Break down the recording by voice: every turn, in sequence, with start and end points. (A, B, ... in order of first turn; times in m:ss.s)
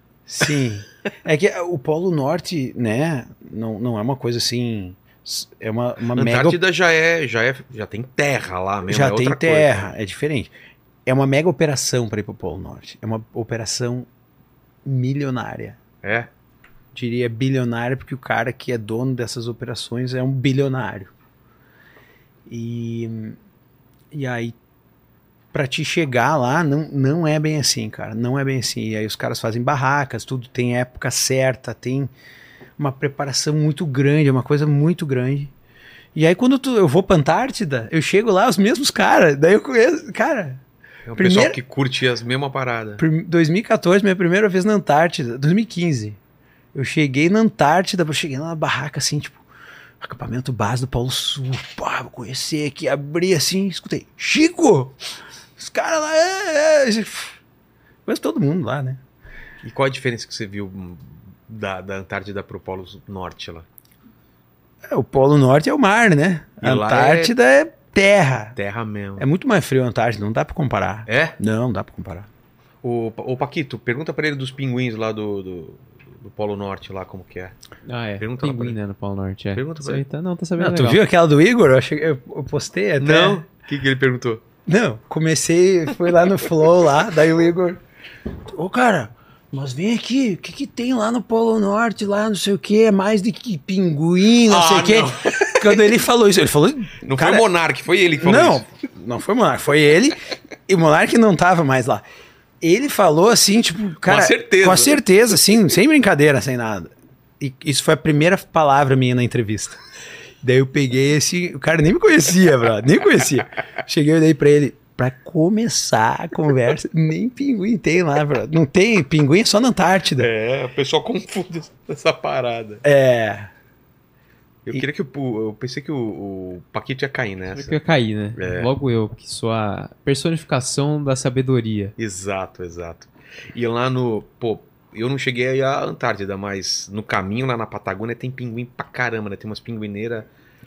0:00.3-0:06.6 A
0:06.1-0:09.9 B
0:08.9-0:10.5 A
0:11.1-0:14.1 A
0:14.8-0:15.8 A
0:16.0-0:16.3 B
0:16.9-0:21.1 A
0:22.5-0:23.4 A
0:24.1-0:24.6 A
0:25.5-0:32.1 A
0:32.8-0:35.5 A
0:36.2-0:40.6 A
0:41.1-0:43.0 B
0:41.2-0:41.6 A
0:43.0-0:46.2 A
0:46.7-0:49.4 A
0:50.0-0:55.0 A
0:55.6-0:57.4 A
0:58.1-0:59.0 A
0:59.6-1:03.7 B
1:04.9-1:08.6 A
1:06.6-1:07.3 B
1:08.6-1:09.2 B
1:09.2-1:12.3 A
1:11.1-1:11.4 B
1:12.8-1:17.5 B
1:17.9-1:21.0 C
1:18.2-1:18.8 B
1:19.5-1:20.0 B
1:20.6-1:23.4 A
1:23.0-1:24.4 B
1:24.7-1:27.8 A
1:28.5-1:37.5 A
1:34.4-1:36.0 B
1:37.0-1:38.7 B
1:38.2-1:42.0 A
1:42.6-1:49.8 A
1:44.0-1:45.0 B
1:50.4-2:00.3 A
2:00.2-2:02.8 B
2:02.8-2:03.5 A
2:04.7-2:07.8 B
2:07.5-2:11.9 C
2:08.4-2:08.7 B
2:12.0-2:20.3 B